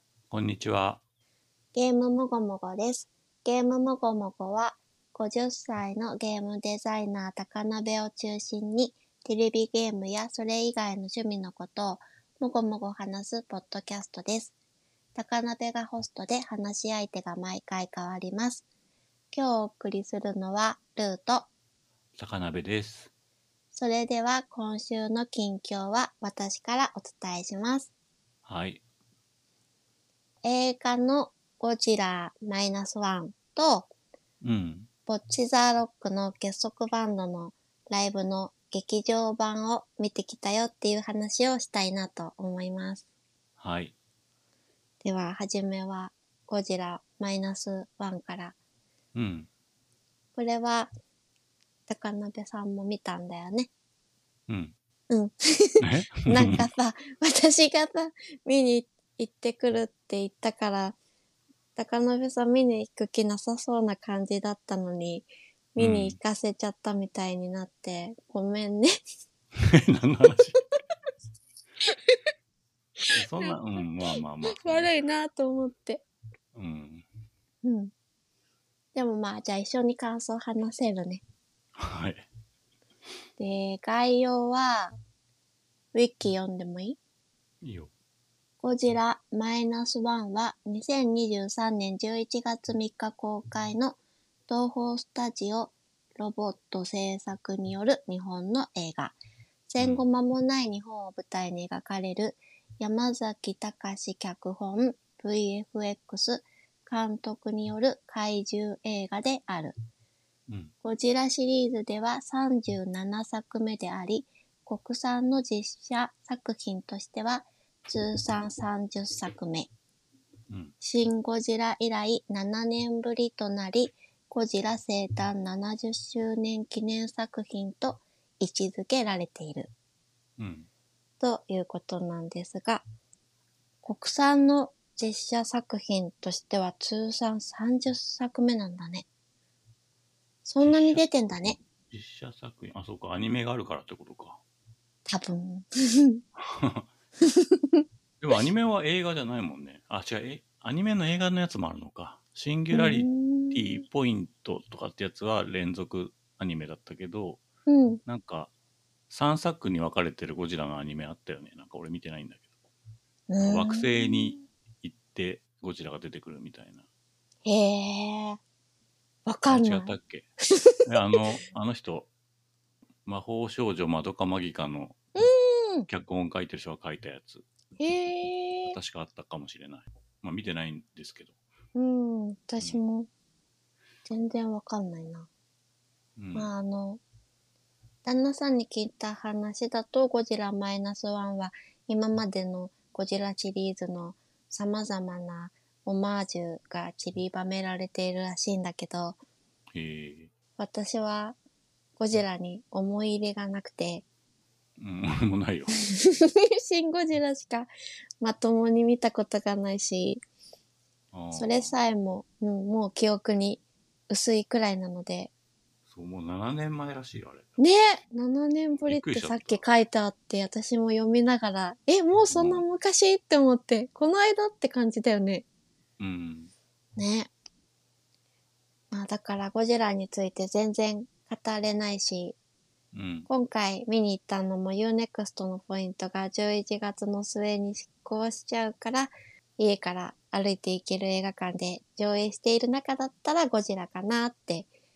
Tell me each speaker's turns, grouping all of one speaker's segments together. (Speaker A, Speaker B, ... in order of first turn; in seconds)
Speaker A: 0.3-1.0, 22.1-23.1, 28.4-28.8, 34.4-34.9, 43.6-43.9, 49.1-49.5, 54.5-54.7, 55.8-56.7, 65.8-66.2, 69.6-70.6, 73.1-74.9, 76.5-77.0, 81.8-82.3, 87.6-87.9, 99.8-100.0, 110.5-110.7, 120.5-120.7, 130.4-130.7, 140.6-144.4, 146.3-146.9, 148.2-157.4, 158.0-158.5, 159.1-162.5, 163.4-166.8, 169.5-170.3, 170.8-172.1, 173.0-175.0, 175.9-177.5, 178.7-181.3, 186.2-186.5, 199.7-200.3, 204.8-205.7, 211.1-211.8, 215.9-217.6, 218.8-219.7, 222.3-222.6, 226.0-226.5, 232.9-233.3
Speaker B: 1.7-14.5, 15.1-18.6, 19.3-21.5, 23.7-27.9, 30.4-33.9, 35.1-43.0, 45.0-48.5, 50.4-50.9, 51.9-53.7, 55.1-61.0, 61.8-68.9, 71.8-72.2, 73.0-76.0, 77.6-77.9, 78.9-81.2, 83.4-85.0, 85.9-87.0, 88.6-99.2, 99.7-109.7, 110.8-119.7, 120.8-129.7, 131.2-132.8, 133.8-139.1, 140.4-141.6, 145.1-146.2, 147.2-147.8, 152.7-153.8, 157.7-158.0, 163.3-164.4, 167.4-168.4, 169.2-170.0, 170.6-171.2, 175.2-175.9, 177.8-178.8, 181.7-183.1, 184.1-185.3, 186.3-187.0, 188.0-199.2, 200.6-201.4, 202.0-204.0, 205.9-210.2, 211.3-215.3, 217.6-225.4, 227.0-227.3, 228.9-232.3, 233.3-244.7